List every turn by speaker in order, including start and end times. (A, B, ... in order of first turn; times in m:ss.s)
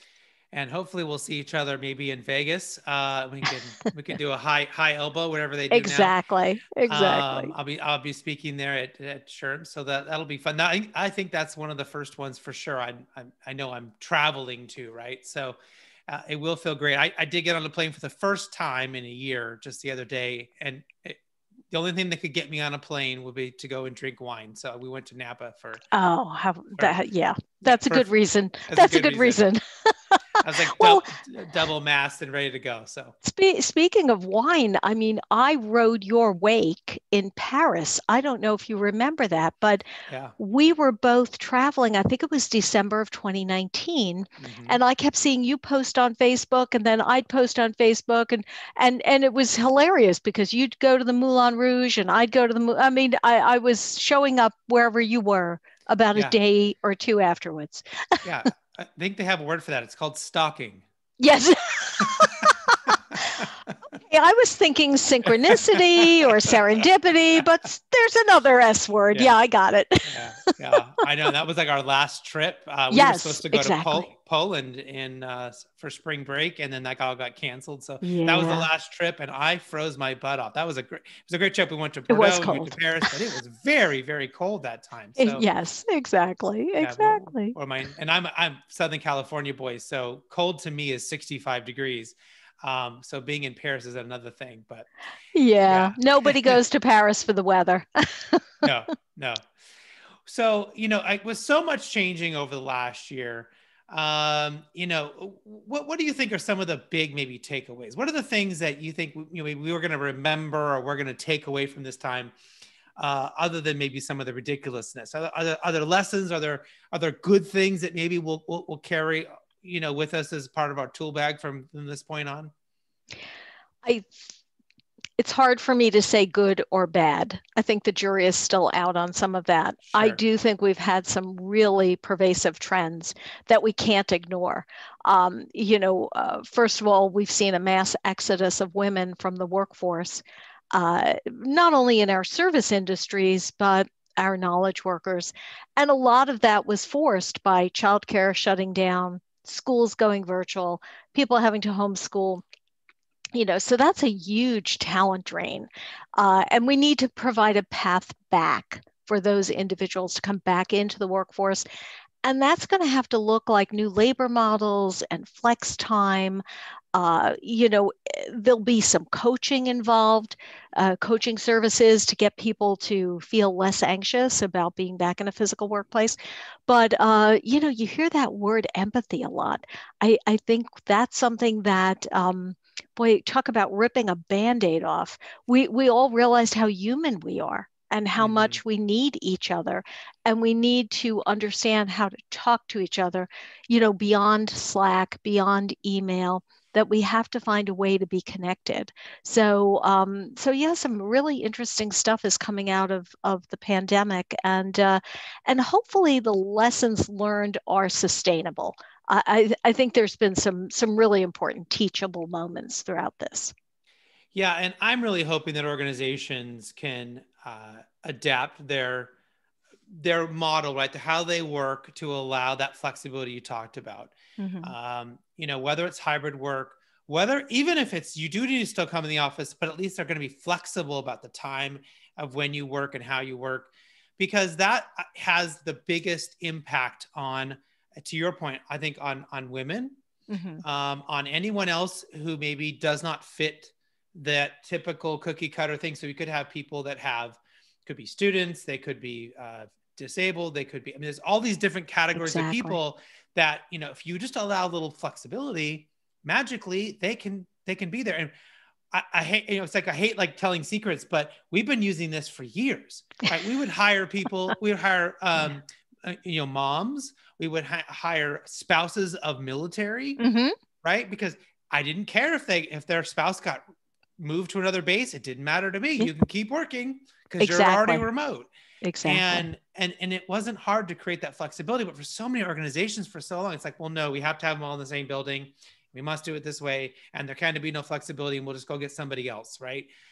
0:00.5-0:06.1 A
0:05.7-0:07.5 B
0:06.9-0:21.2 A
0:21.7-0:25.8 A
0:25.9-0:30.2 B
0:27.6-0:28.1 A
0:28.7-0:29.4 A
0:30.4-0:33.2 A
0:30.7-0:31.1 B
0:33.2-0:39.8 B
0:40.1-0:40.3 A
0:40.4-0:58.2 B
0:44.4-0:44.8 A
0:58.2-1:00.8 A
1:01.2-1:03.5 B
1:02.0-1:02.5 A
1:04.1-1:10.5 B
1:05.5-1:06.1 A
1:10.1-1:25.4 A
1:12.9-1:14.1 B
1:18.0-1:18.7 B
1:22.1-1:23.1 B
1:25.2-1:27.6 B
1:26.8-1:34.9 A
1:35.3-1:38.6 B
1:35.7-1:36.6 A
1:38.6-1:39.5 A
1:40.3-1:52.3 A
1:53.0-2:02.5 A
2:03.8-2:04.2 B
2:05.2-2:32.4 B
2:09.9-2:10.2 A
2:33.3-2:41.6 B
2:42.2-2:46.4 B
2:46.9-3:33.5 B
3:08.2-3:08.6 A
3:34.3-3:39.1 A
3:39.9-4:00.0 A
3:44.4-3:44.7 B
4:00.3-4:00.6 B
4:00.6-4:18.3 A
4:12.2-4:12.8 B
4:18.9-4:30.2 A
4:30.2-4:30.6 B
4:30.8-4:33.6 A
4:34.2-4:38.5 A
4:37.4-4:38.1 B
4:38.8-4:39.5 B
4:39.0-4:49.9 A